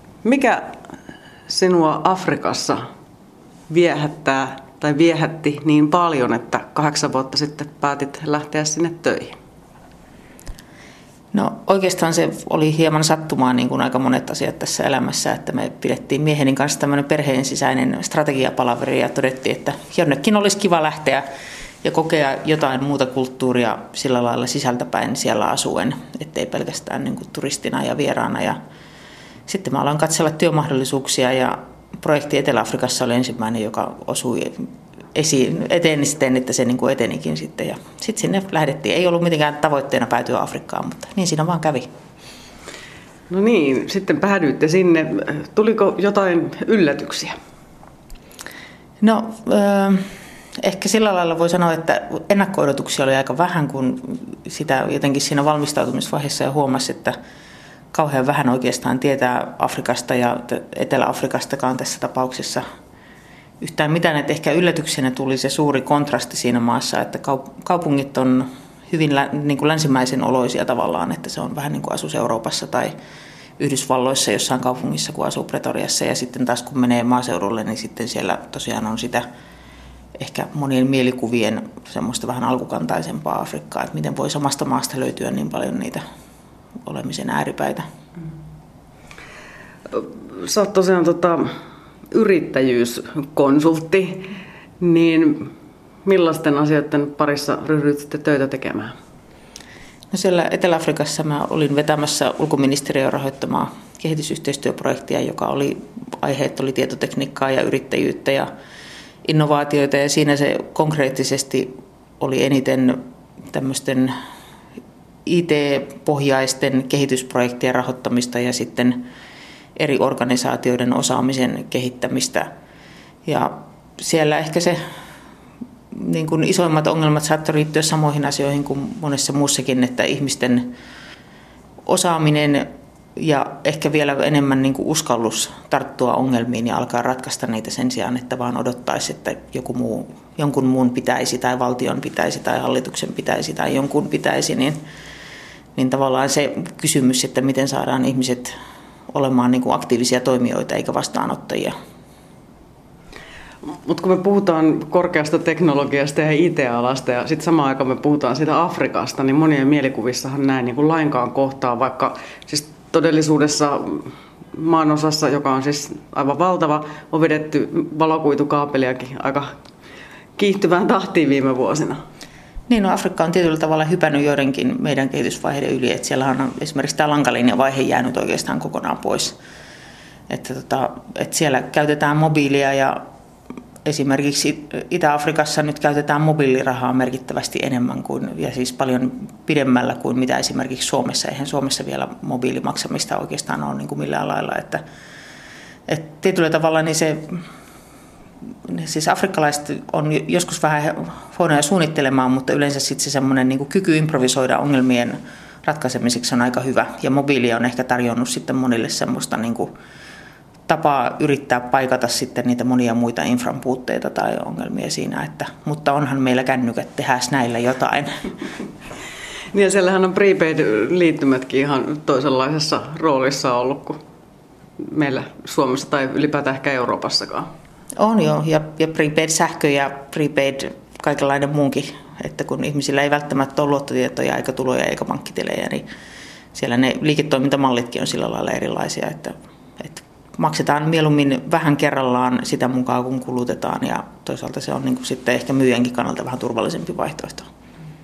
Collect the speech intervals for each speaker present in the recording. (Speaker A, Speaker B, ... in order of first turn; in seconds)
Speaker A: 0.2-0.8, 1.5-2.9, 3.7-9.3, 43.3-47.4, 89.9-91.5, 92.1-94.3, 94.8-95.5, 96.0-98.9, 153.8-169.5, 170.4-172.0, 219.5-224.0, 224.8-227.5
Speaker B: 11.3-21.2, 21.8-28.6, 29.5-41.9, 49.0-57.1, 57.9-62.6, 63.6-72.9, 73.6-79.3, 80.2-86.0, 86.8-87.9, 100.1-108.5, 109.2-114.1, 115.2-119.0, 119.8-122.5, 123.2-124.8, 125.9-130.7, 131.8-144.8, 145.8-148.5, 149.1-151.7, 172.7-179.4, 180.3-183.0, 183.8-194.8, 195.9-197.4, 198.6-209.7, 210.7-218.2, 228.0-235.8, 236.5-247.5